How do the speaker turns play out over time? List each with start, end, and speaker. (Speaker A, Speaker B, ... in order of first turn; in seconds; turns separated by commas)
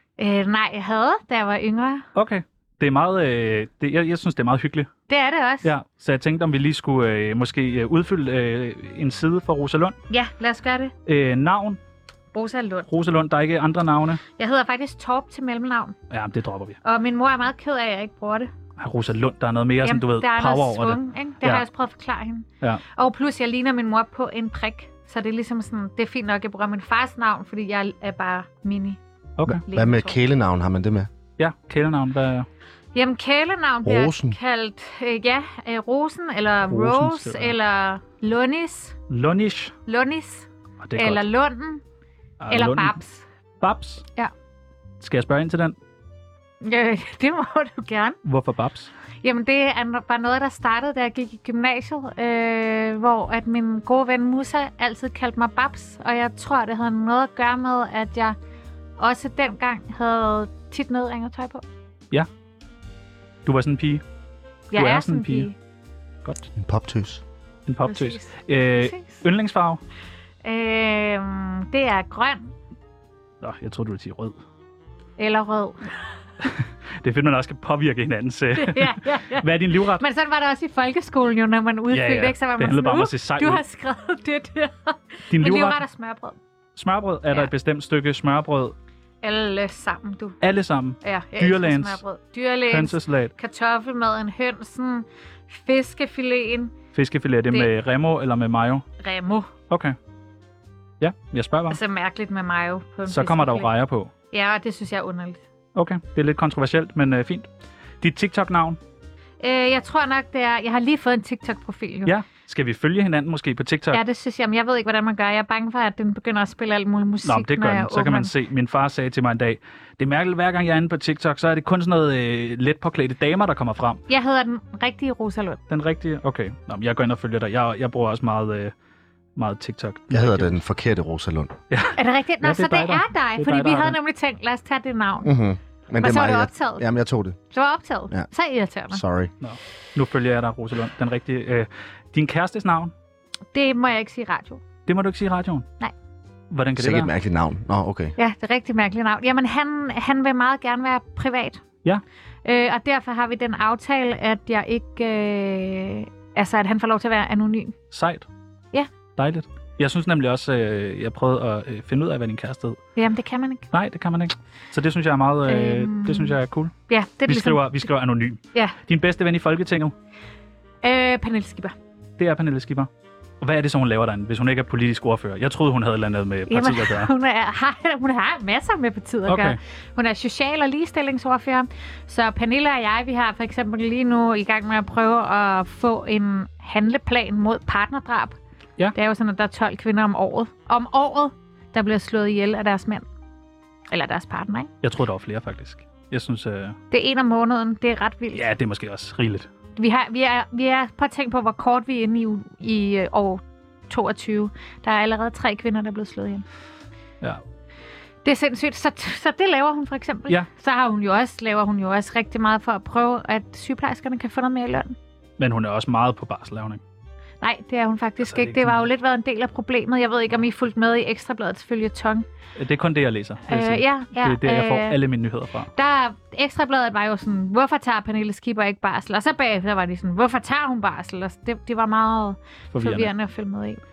Speaker A: 0.2-2.1, Speaker B: 2.1-4.9, Speaker A: 5.1-5.7, Speaker B: 5.6-10.0, Speaker A: 10.1-10.9, Speaker B: 11.1-11.8, Speaker A: 12.3-12.9, Speaker B: 12.9-14.2, Speaker A: 14.4-16.0, Speaker B: 16.1-16.8, Speaker A: 16.8-18.5, Speaker B: 18.8-21.6, Speaker A: 19.8-29.0, Speaker A: 29.6-30.2, Speaker C: 29.7-31.1, Speaker B: 31.4-32.5, Speaker A: 33.0-39.0, Speaker C: 33.9-34.4, Speaker B: 36.7-37.6, Speaker B: 39.1-39.8, Speaker A: 39.9-41.8, Speaker B: 40.8-41.2, Speaker B: 42.4-43.0, Speaker A: 42.5-43.2, Speaker B: 43.6-44.0, Speaker B: 45.0-45.8, Speaker A: 46.6-48.2, Speaker B: 48.2-48.9, Speaker A: 49.2-58.4, Speaker A: 59.0-61.6, Speaker B: 63.5-64.0, Speaker A: 64.7-65.5, Speaker B: 64.7-65.5, Speaker C: 66.6-67.2, Speaker B: 67.7-69.8, Speaker A: 67.9-68.3, Speaker A: 68.8-69.2, Speaker A: 70.4-72.5, Speaker B: 73.4-74.4, Speaker A: 75.2-76.1, Speaker B: 76.4-80.0, Speaker A: 78.6-86.4, Speaker B: 81.9-83.6, Speaker B: 85.3-85.8, Speaker B: 86.8-88.8, Speaker A: 89.2-90.4, Speaker B: 90.4-92.0, Speaker A: 91.0-96.7, Speaker B: 92.7-93.3, Speaker B: 96.9-98.8, Speaker A: 99.0-99.5, Speaker B: 99.7-100.0, Speaker B: 101.0-101.8, Speaker A: 101.7-103.7, Speaker B: 103.1-104.1, Speaker A: 104.3-105.4, Speaker B: 105.8-107.5, Speaker B: 108.0-108.8, Speaker A: 109.4-112.2, Speaker B: 112.0-114.0, Speaker A: 113.9-118.3, Speaker B: 117.2-124.0, Speaker A: 124.1-125.6, Speaker B: 125.7-128.7, Speaker B: 129.4-130.6, Speaker C: 130.1-131.5, Speaker B: 131.7-134.0, Speaker A: 132.0-135.3, Speaker C: 135.2-137.4, Speaker A: 136.0-136.8, Speaker A: 137.5-139.0, Speaker C: 138.9-139.3, Speaker B: 139.4-142.9, Speaker A: 143.5-144.6, Speaker B: 144.9-145.7, Speaker B: 146.5-147.1, Speaker C: 146.8-148.1, Speaker A: 148.2-151.6, Speaker A: 152.4-157.8, Speaker B: 157.9-158.3, Speaker B: 159.2-162.8, Speaker A: 163.0-163.7, Speaker B: 163.7-166.7, Speaker A: 165.5-166.4, Speaker A: 166.9-167.9, Speaker B: 167.3-169.9, Speaker A: 170.8-171.8, Speaker B: 172.2-172.9, Speaker B: 173.4-177.1, Speaker A: 176.5-188.4, Speaker B: 179.3-179.6, Speaker A: 188.9-193.1, Speaker A: 193.9-194.7, Speaker B: 194.8-196.8, Speaker A: 196.9-198.5, Speaker B: 198.3-199.5, Speaker A: 199.8-206.4, Speaker A: 208.2-214.9, Speaker B: 215.4-216.8, Speaker A: 217.4-222.3, Speaker B: 218.2-218.8, Speaker B: 222.6-225.7, Speaker A: 223.5-225.0, Speaker A: 225.8-233.8, Speaker B: 232.7-233.1